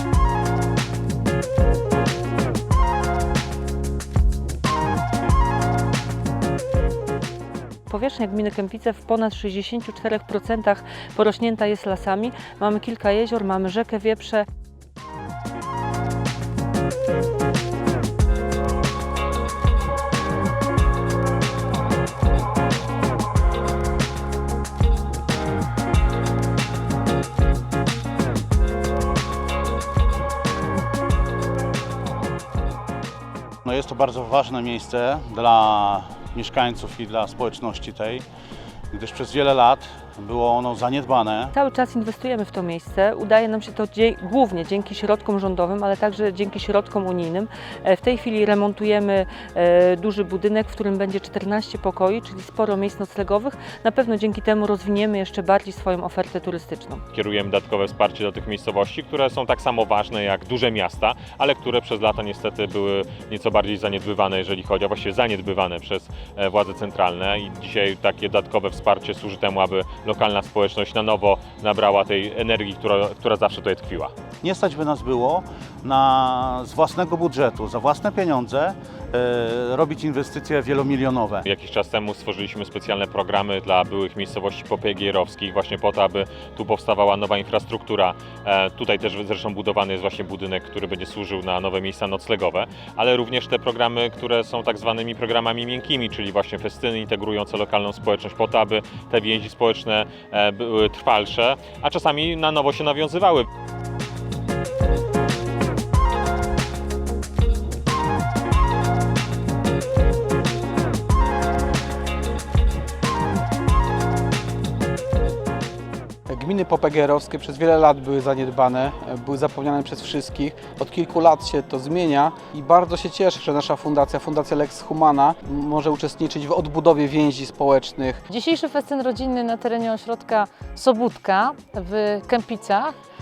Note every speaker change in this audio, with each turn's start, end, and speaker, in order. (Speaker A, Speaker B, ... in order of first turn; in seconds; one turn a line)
Speaker A: 7.9-14.5
Speaker B: 33.6-38.2
Speaker B: 38.9-41.5
Speaker A: 41.6-57.0
Speaker C: 57.1-74.1
Speaker B: 74.4-81.4
Speaker C: 81.5-103.5
Speaker D: 116.3-128.2
Speaker E: 128.3-132.9